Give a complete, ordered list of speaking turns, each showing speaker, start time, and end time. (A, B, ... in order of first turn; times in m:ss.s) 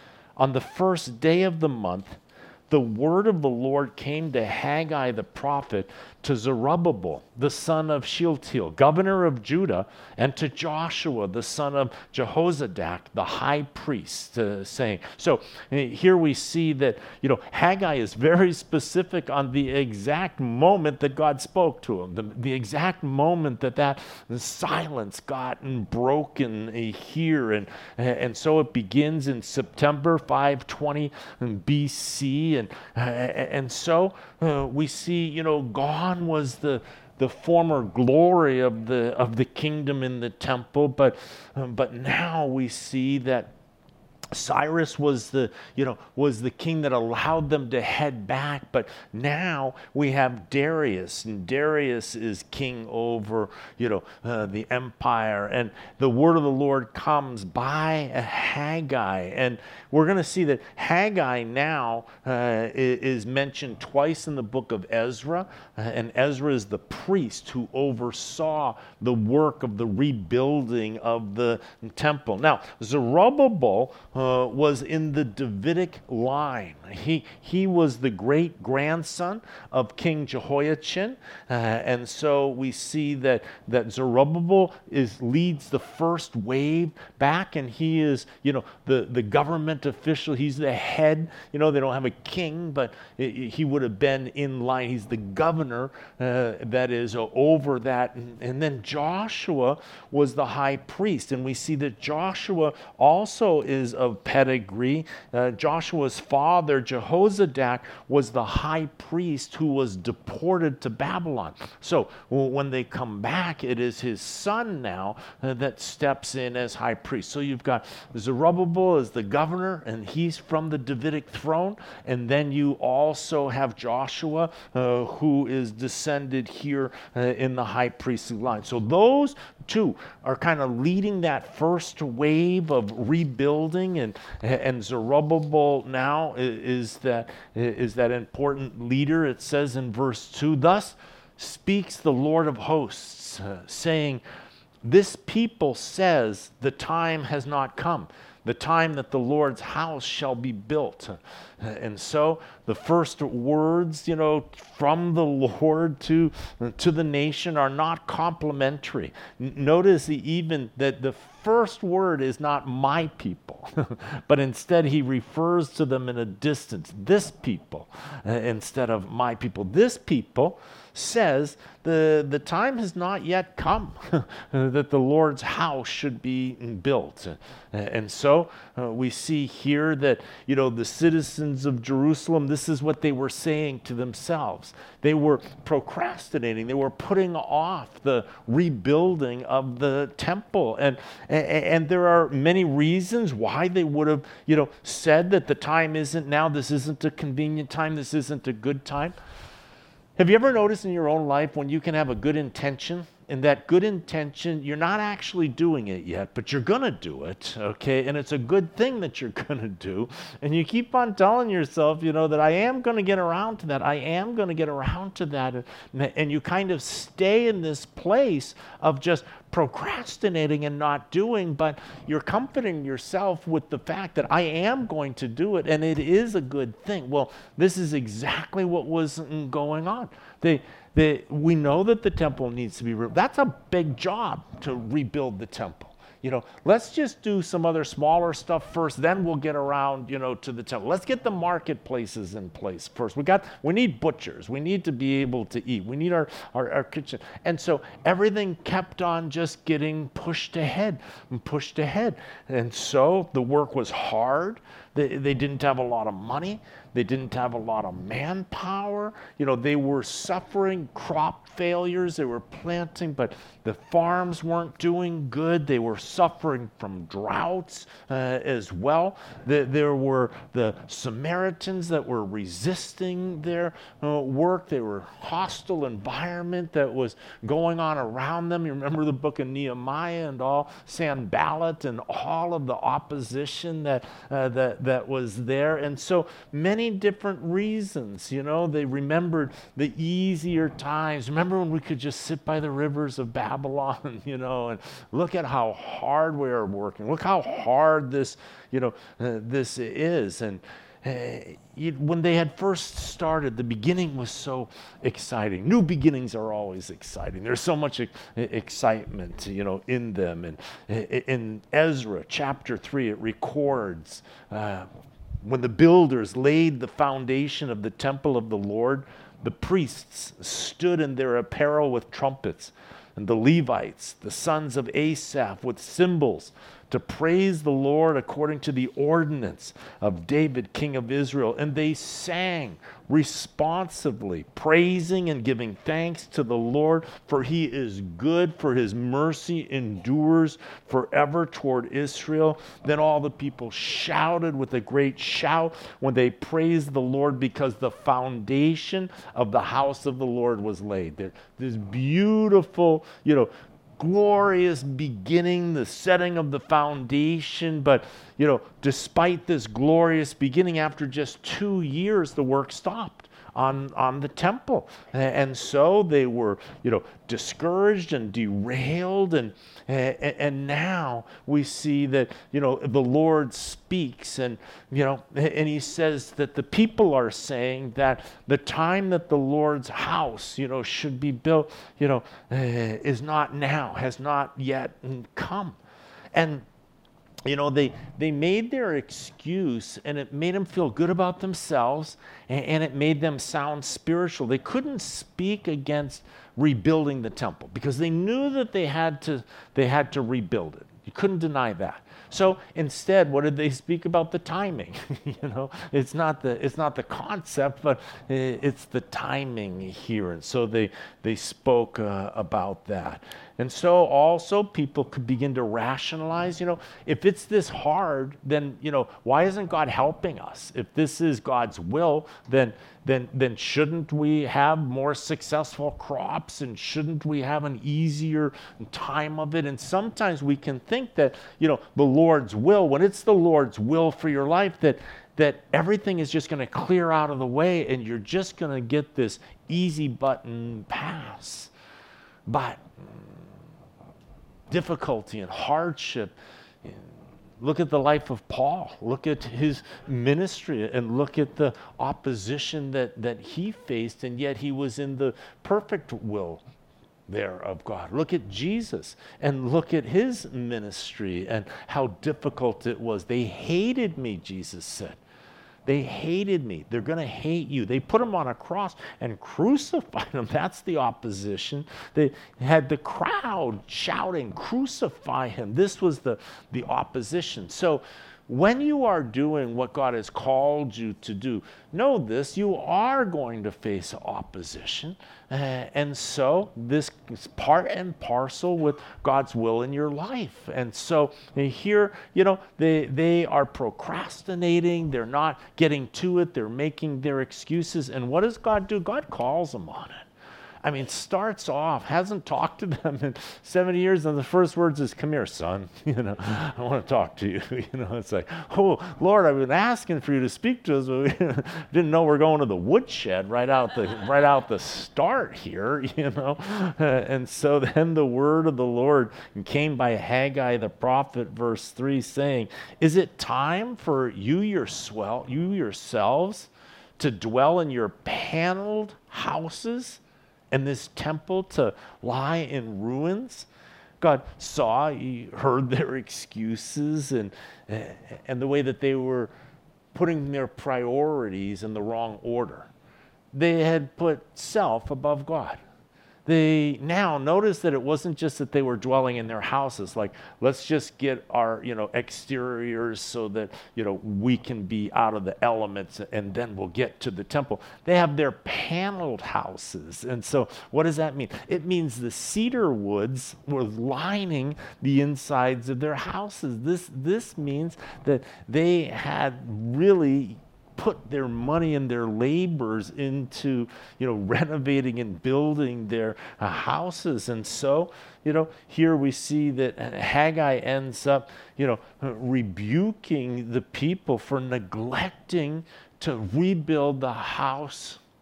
0:00.4-0:43.5 A
0:44.3-2:24.2 A
2:24.8-3:19.2 A
3:20.2-5:14.9 A
5:15.4-6:25.8 A
6:26.3-6:26.6 A
6:27.4-7:21.7 A
7:22.5-7:23.2 A
7:24.7-7:27.0 A
7:27.6-7:36.6 A
7:37.3-7:45.2 A
7:45.8-8:20.3 A
8:20.8-8:53.7 A
8:54.2-8:59.5 A
9:00.1-9:02.9 A
9:03.5-9:05.8 A
9:06.4-9:48.2 A